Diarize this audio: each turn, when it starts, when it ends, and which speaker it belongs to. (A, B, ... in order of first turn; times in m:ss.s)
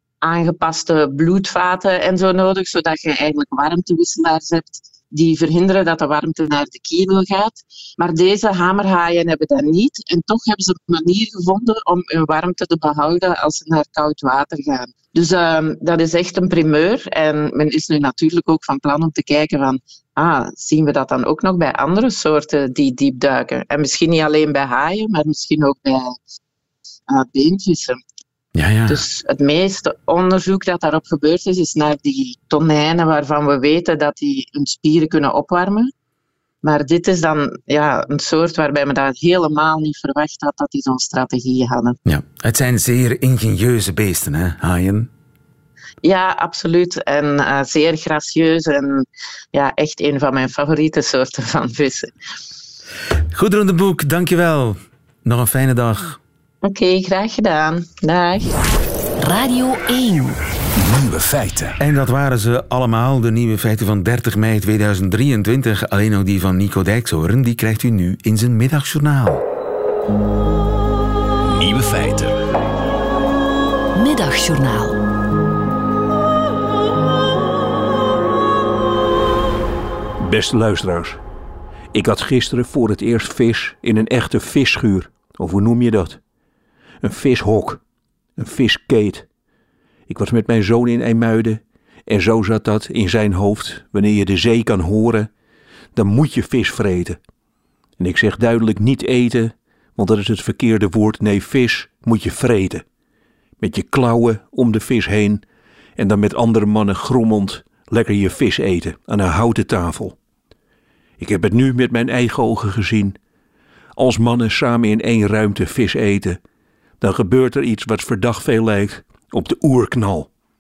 0:00.2-0:26.2 A
0:27.1-0:28.0 A
0:28.6-0:29.0 B
0:28.9-0:35.9 A
0:36.6-0:42.0 A
0:42.1-0:45.1 B
0:46.0-0:52.1 A
0:53.3-0:56.2 B
0:56.6-0:58.6 A
0:59.2-1:00.4 C
1:00.8-1:01.8 D
1:01.8-1:09.4 B
1:11.4-1:12.4 D
1:14.0-1:15.0 C
1:20.2-1:21.2 D
1:21.9-1:26.2 D
1:27.0-1:27.8 D
1:28.4-1:29.3 D
1:30.1-1:35.3 D
1:36.0-1:37.2 D
1:38.0-1:42.8 D
1:43.6-1:45.4 D
1:46.0-1:50.2 D
1:51.2-1:53.2 D
1:54.0-1:56.4 D
1:57.0-2:00.3 D